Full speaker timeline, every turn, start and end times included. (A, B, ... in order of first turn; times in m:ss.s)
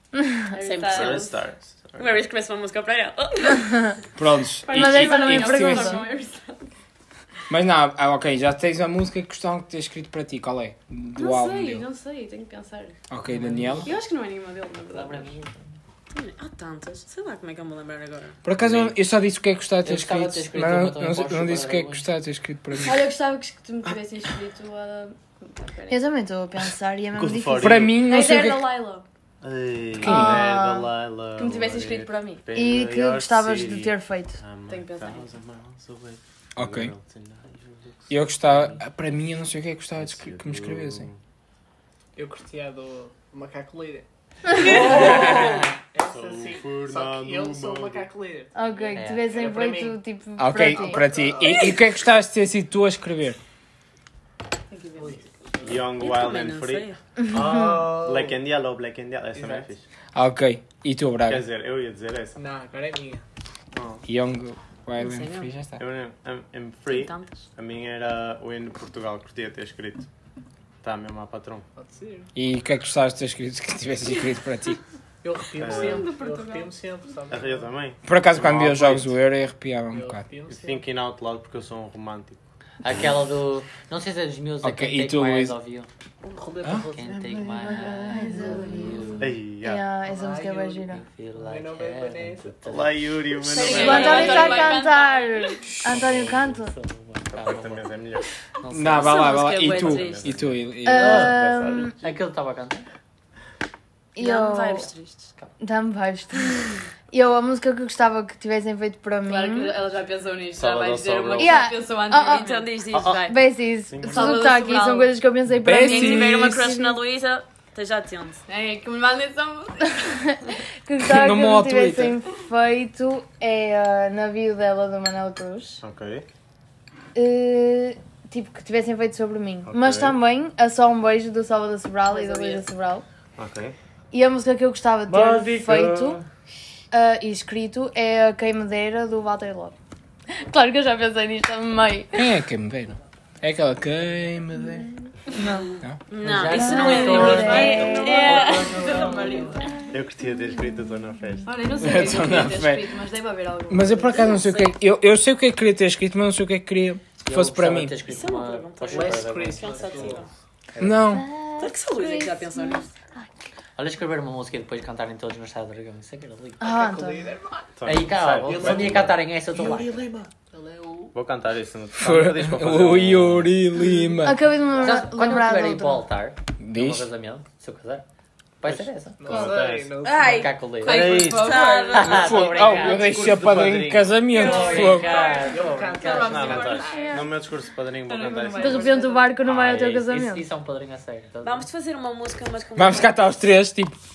0:00.5-0:01.4 A
0:00.5-0:01.3 B
0:00.9-0:02.2 C
0:02.0-0:03.9 B
0:04.2-0:06.0 D
0:04.6-0:06.7 A
0:04.7-0:06.0 E
0:07.5-0:11.9 D
0:11.2-0:13.0 A
0:13.1-0:13.9 D
0:13.3-0:14.0 F
0:13.8-0:15.4 A
0:14.9-0:15.7 F
0:16.1-0:18.4 B
0:18.4-0:23.1 D
0:18.6-0:19.0 C
0:19.8-0:22.0 F
0:22.8-0:26.0 A
0:25.9-0:27.9 E
0:27.2-0:28.1 C
0:27.6-0:28.7 D
0:28.0-0:29.0 A
0:29.4-0:38.8 C
0:30.0-0:30.9 E
0:30.1-0:30.4 D
0:31.4-0:32.4 A
0:32.5-0:34.4 E
0:34.7-0:35.3 A
0:36.6-0:36.9 D
0:38.1-0:41.1 D
0:40.0-0:41.2 C
0:42.2-0:50.0 G
0:44.7-0:45.5 C
0:44.8-0:45.6 D
0:46.0-0:48.1 C
0:48.6-0:51.1 E
0:49.0-0:49.3 F
0:50.4-0:53.4 D
0:50.6-0:51.8 G
0:54.7-0:55.2 A
0:55.0-0:56.0 G
0:55.6-0:59.8 C
0:56.0-0:57.0 B
0:57.2-0:57.8 E
0:57.4-0:58.4 G
0:59.3-0:59.7 G
1:00.2-1:01.5 D
1:01.3-1:02.4 C
1:02.4-1:03.2 G
1:03.7-1:04.0 C
1:04.0-1:05.8 D
1:05.0-1:05.5 B
1:05.8-1:10.1 C
1:06.9-1:07.4 B
1:10.8-1:11.7 C
1:11.8-1:12.3 G
1:12.4-1:14.8 D
1:15.2-1:17.7 G
1:15.6-1:16.1 C
1:15.7-1:16.7 A
1:17.3-1:19.1 C
1:18.0-1:20.2 D
1:19.9-1:20.9 G
1:20.5-1:22.4 C
1:22.8-1:25.9 F
1:24.6-1:25.6 D
1:26.2-1:29.3 G
1:26.9-1:29.4 F
1:28.0-1:31.0 E
1:29.2-1:29.9 C
1:30.0-1:32.6 G
1:30.9-1:33.1 F
1:32.7-1:34.7 C
1:33.4-1:35.6 A
1:33.6-1:36.7 E
1:33.8-1:34.7 B
1:35.9-1:37.9 F
1:35.9-1:36.4 C
1:37.3-1:38.3 C
1:38.6-1:39.2 F
1:38.7-1:41.3 D
1:39.0-1:42.1 C
1:39.0-1:40.4 B
1:40.8-1:42.0 E
1:41.0-1:41.4 F
1:42.0-1:42.8 F
1:44.2-1:44.9 E
1:44.2-1:45.3 B
1:45.6-1:49.8 E
1:49.2-1:52.8 A
1:50.5-1:51.6 C
1:51.4-1:52.5 E
1:52.2-1:53.4 B
1:52.9-1:53.3 C
1:53.0-1:57.0 E
1:53.9-1:54.5 C
1:54.0-1:55.2 A
1:55.6-1:56.4 D
1:55.8-1:58.4 B
1:58.5-2:00.1 A
2:00.2-2:05.8 E
2:01.0-2:02.2 D
2:05.8-2:06.3 C
2:07.2-2:13.0 E
2:09.7-2:10.2 C
2:12.1-2:12.6 A
2:13.4-2:13.8 C
2:14.1-2:16.2 E
2:15.1-2:16.2 C
2:16.9-2:19.8 E
2:20.3-2:22.3 E
2:22.1-2:24.9 D
2:25.3-2:25.7 E
2:26.1-2:29.7 B
2:26.2-2:29.1 F
2:26.5-2:28.5 E
2:28.2-2:29.6 G
2:28.8-2:29.6 A
2:29.9-2:31.6 C
2:31.4-2:34.4 A
2:31.8-2:32.9 D
2:33.7-2:38.0 D
2:34.1-2:34.8 B
2:37.2-2:39.5 F
2:38.0-2:40.3 B
2:38.9-2:40.2 G
2:38.9-2:40.3 C
2:40.8-2:41.0 F
2:40.8-2:41.3 D
2:41.1-2:43.3 E
2:41.6-2:42.9 B
2:43.8-2:46.6 F
2:46.6-2:47.3 E
2:46.6-2:51.2 G
2:47.8-2:49.2 C
2:47.8-2:50.1 F
2:51.1-2:53.6 C
2:52.0-2:54.5 D
2:54.2-2:56.1 E
2:54.7-2:55.0 G
2:54.8-2:58.0 F
2:56.6-2:57.1 D
2:58.6-2:59.5 F
2:58.7-3:00.1 C
2:59.2-3:00.7 G
3:00.1-3:00.4 B
3:00.1-3:02.1 A
3:00.2-3:03.6 F
3:00.8-3:01.7 C
3:01.2-3:03.0 B
3:02.0-3:05.2 D
3:02.6-3:04.2 C
3:04.3-3:05.6 B
3:04.3-3:06.8 F
3:04.6-3:07.3 A
3:04.8-3:07.2 G
3:06.1-3:09.0 C
3:08.0-3:09.4 A
3:08.6-3:10.4 E
3:09.4-3:11.7 F
3:11.4-3:13.4 B
3:12.8-3:14.0 D